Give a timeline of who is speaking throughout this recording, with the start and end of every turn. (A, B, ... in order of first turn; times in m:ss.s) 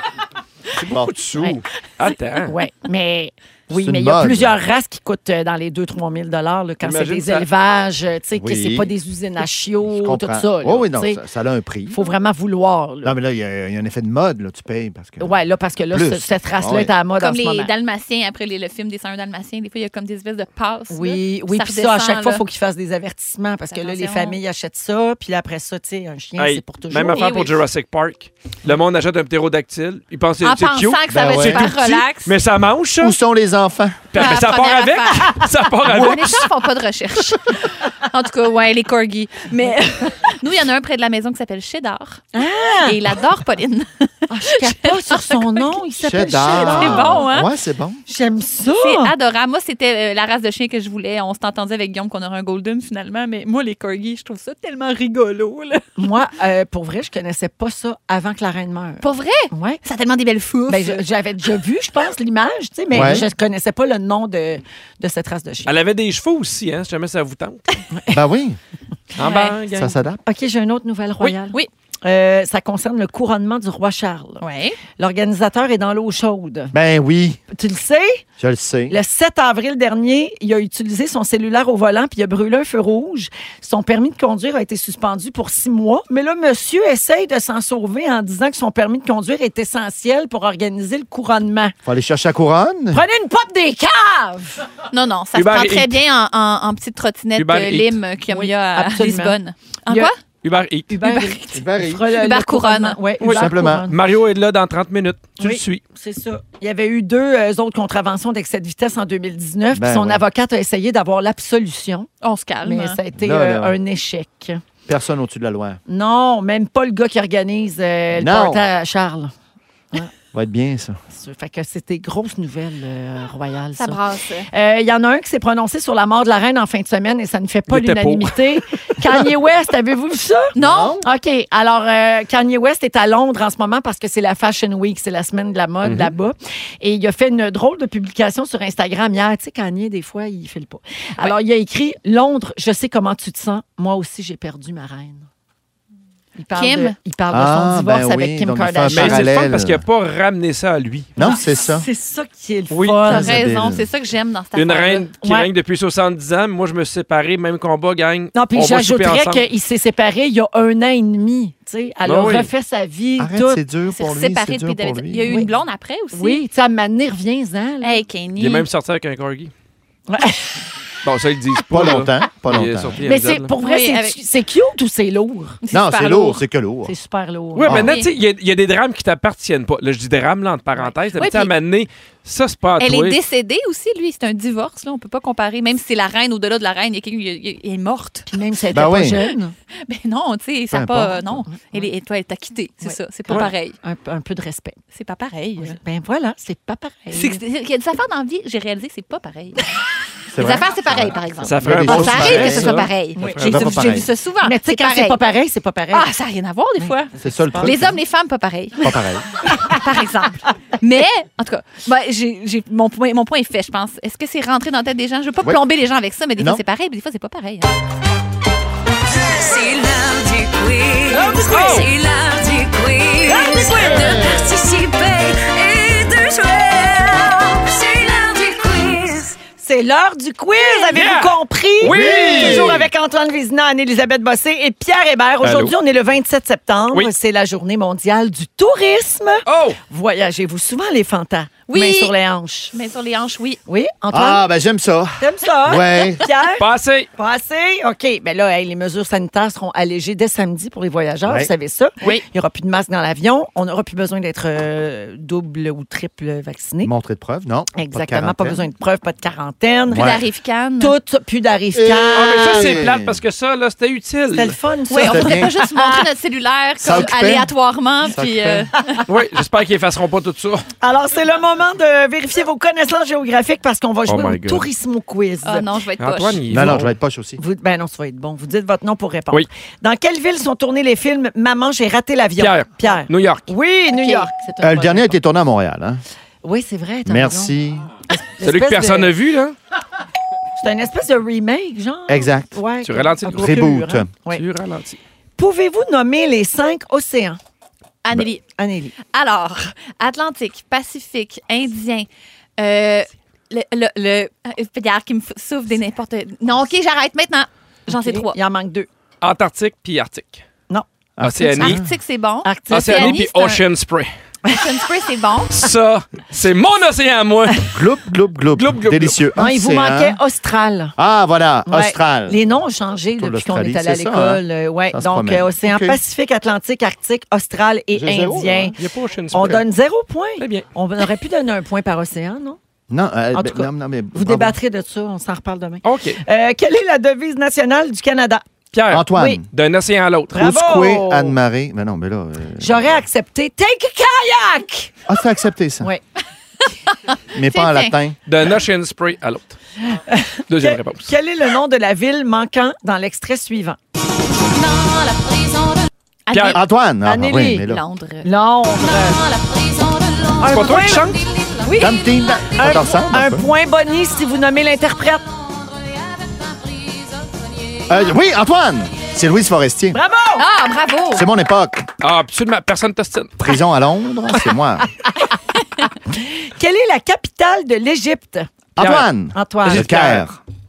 0:00.8-0:02.5 A
0:02.5-0:11.2 B
0:03.7-0:04.6 C
0:06.8-0:07.5 A
0:08.3-0:08.9 C
0:09.9-0:12.0 C
0:11.9-0:13.2 B
0:13.0-0:15.3 C
0:15.2-0:17.7 B
0:15.9-0:16.9 C
0:17.2-0:22.4 D
0:20.9-0:27.3 B
0:23.7-0:24.4 D
0:26.4-0:33.2 A
0:27.0-0:27.5 D
0:30.4-0:32.3 D
0:31.1-0:31.9 C
0:33.0-0:34.1 C
0:34.1-0:36.5 A
0:34.2-0:42.3 D
0:42.3-0:43.0 B
0:42.8-0:45.8 D
0:44.3-0:47.2 B
0:46.0-0:48.0 C
0:46.5-0:47.5 D
0:48.1-0:49.1 B
0:48.7-0:56.1 D
0:56.0-0:59.8 B
0:59.0-1:01.0 D
1:00.7-1:05.7 B
1:02.9-1:03.2 C
1:05.6-1:07.8 A
1:08.1-1:08.6 C
1:09.2-1:10.0 A
1:09.2-1:09.6 D
1:09.7-1:10.2 C
1:10.2-1:14.4 B
1:14.4-1:14.8 D
1:15.0-1:16.7 B
1:16.7-1:17.4 C
1:17.5-1:18.2 B
1:18.4-1:19.0 C
1:18.9-1:31.7 B
1:31.8-1:33.0 C
1:32.9-1:34.6 B
1:34.9-1:40.1 D
1:35.3-1:36.0 A
1:37.4-1:38.0 A
1:38.3-1:39.4 B
1:40.4-1:40.9 A
1:40.9-1:44.0 B
1:41.0-1:43.0 D
1:41.5-1:42.0 C
1:43.2-1:45.8 A
1:43.2-1:43.9 C
1:45.4-1:52.1 B
1:49.7-1:50.2 C
1:52.2-1:53.0 D
1:52.6-1:54.6 B
1:53.2-1:53.8 C
1:54.9-1:55.8 C
1:55.9-1:59.3 B
1:58.1-1:58.6 C
2:00.3-2:01.0 C
2:01.1-2:25.3 B
2:03.8-2:04.5 D
2:07.7-2:09.1 A
2:10.5-2:11.0 D
2:10.6-2:11.0 C
2:15.8-2:16.1 A
2:26.4-2:29.3 B
2:26.5-2:26.9 D
2:27.3-2:29.8 C
2:28.9-2:31.1 A
2:31.2-2:31.9 C
2:31.2-2:33.4 B
2:32.7-2:33.0 A
2:33.0-2:35.1 D
2:33.1-2:33.9 C
2:34.5-2:39.4 A
2:35.2-2:35.5 B
2:38.3-2:43.6 B
2:42.0-2:42.5 A
2:43.2-2:45.4 C
2:43.9-2:46.4 D
2:45.3-2:45.5 B
2:46.1-2:48.0 B
2:47.8-2:48.6 D
2:48.4-2:49.5 A
2:50.1-2:50.6 B
2:51.0-2:53.5 A
2:51.7-2:53.0 C
2:53.0-2:55.6 B
2:53.6-2:54.2 D
2:55.6-2:56.4 D
2:55.7-2:56.9 C
2:56.9-2:57.7 B
2:57.5-3:03.2 A
2:57.6-2:57.9 C
3:01.1-3:01.5 D
3:02.8-3:08.3 D
3:08.3-3:09.5 B
3:08.7-3:09.3 C
3:09.8-3:13.8 D
3:10.7-3:11.3 C
3:11.5-3:11.9 B
3:12.8-3:14.8 B
3:14.9-3:15.8 D
3:15.6-3:17.4 B
3:17.1-3:19.7 D
3:20.3-3:22.8 C
3:20.3-3:25.2 D
3:21.4-3:23.7 A
3:23.1-3:23.6 B
3:23.4-3:24.1 C
3:24.4-3:26.1 B
3:25.9-3:28.9 D
3:26.8-3:27.7 B
3:27.2-3:28.0 C
3:28.8-3:29.2 C
3:29.4-3:37.7 D
3:36.4-3:36.6 C
3:39.2-3:49.4 E
3:41.3-3:41.9 A
3:43.2-3:44.2 B
3:43.8-3:44.3 C
3:49.6-4:02.7 B
3:50.9-3:52.8 A
3:51.8-3:52.9 C
3:55.4-3:55.7 A
3:59.5-3:59.8 A
4:01.7-4:02.1 D
4:02.7-4:03.6 D
4:03.7-4:04.5 B
4:04.1-4:06.2 C
4:05.2-4:06.6 B
4:06.6-4:07.1 A
4:07.2-4:16.9 B
4:11.2-4:11.5 C
4:16.8-4:18.7 C
4:17.7-4:20.1 B
4:19.9-4:20.2 C
4:19.9-4:21.0 D
4:20.8-4:22.8 B
4:21.7-4:23.2 C
4:22.1-4:24.5 A
4:24.3-4:26.0 B
4:24.9-4:29.0 D
4:25.0-4:25.5 C
4:26.8-4:27.5 C
4:28.0-4:28.7 C
4:29.0-4:30.6 A
4:30.8-4:35.7 B
4:34.0-4:34.7 A
4:35.4-4:36.4 D
4:36.0-4:36.9 A
4:36.5-4:37.4 C
4:37.4-4:45.2 B
4:42.4-4:43.5 A
4:43.9-4:44.3 D
4:44.6-4:46.0 C
4:46.4-4:47.5 B
4:47.0-4:47.9 C
4:48.1-4:49.2 B
4:48.4-4:49.5 A
4:50.6-4:54.4 B
4:52.1-4:52.6 C
4:52.8-4:53.6 A
4:53.3-4:54.1 C
4:54.3-4:55.0 A
4:55.4-4:57.4 B
4:58.0-4:58.4 D
4:58.6-4:58.9 B
4:59.0-5:08.4 D
5:07.9-5:08.9 B
5:09.2-5:10.4 A
5:11.2-5:12.0 C
5:11.2-5:11.8 A
5:11.5-5:13.6 D
5:12.4-5:13.2 B
5:12.7-5:14.1 A
5:14.5-5:15.6 D
5:15.5-5:17.8 A
5:17.7-5:20.2 C
5:18.6-5:19.2 A
5:19.4-5:20.9 B
5:21.0-5:22.4 C
5:21.6-5:28.7 B
5:23.2-5:26.0 C
5:27.9-5:28.7 C
5:28.8-5:29.6 A
5:29.3-5:32.6 B
5:30.4-5:30.6 A
5:32.9-5:34.6 C
5:33.3-5:38.4 B
5:35.8-5:36.2 A
5:38.7-5:40.4 A
5:38.9-5:39.5 C
5:39.1-5:39.4 B
5:40.3-5:41.4 B
5:40.3-5:43.0 C
5:42.6-5:44.9 B
5:45.1-5:45.9 C
5:47.3-5:48.2 C
5:47.5-5:47.9 D
5:48.3-5:49.6 A
5:49.9-5:53.8 B
5:50.5-5:51.1 A
5:54.5-5:56.6 D
5:56.3-5:56.6 A
5:56.4-5:57.8 C
5:57.0-5:57.7 B
5:57.5-6:02.1 D
5:58.2-5:59.2 B
6:00.4-6:01.8 B
6:00.4-6:01.2 A
6:01.8-6:03.5 C
6:02.5-6:05.2 B
6:05.9-6:07.8 D
6:07.9-6:10.0 C
6:09.9-6:10.5 B
6:10.4-6:11.2 D
6:11.1-6:11.9 C
6:12.0-6:13.4 A
6:13.4-6:14.9 C
6:16.1-6:18.5 B
6:18.8-6:20.4 C
6:18.8-6:19.1 A
6:19.3-6:20.0 B
6:19.6-6:20.3 A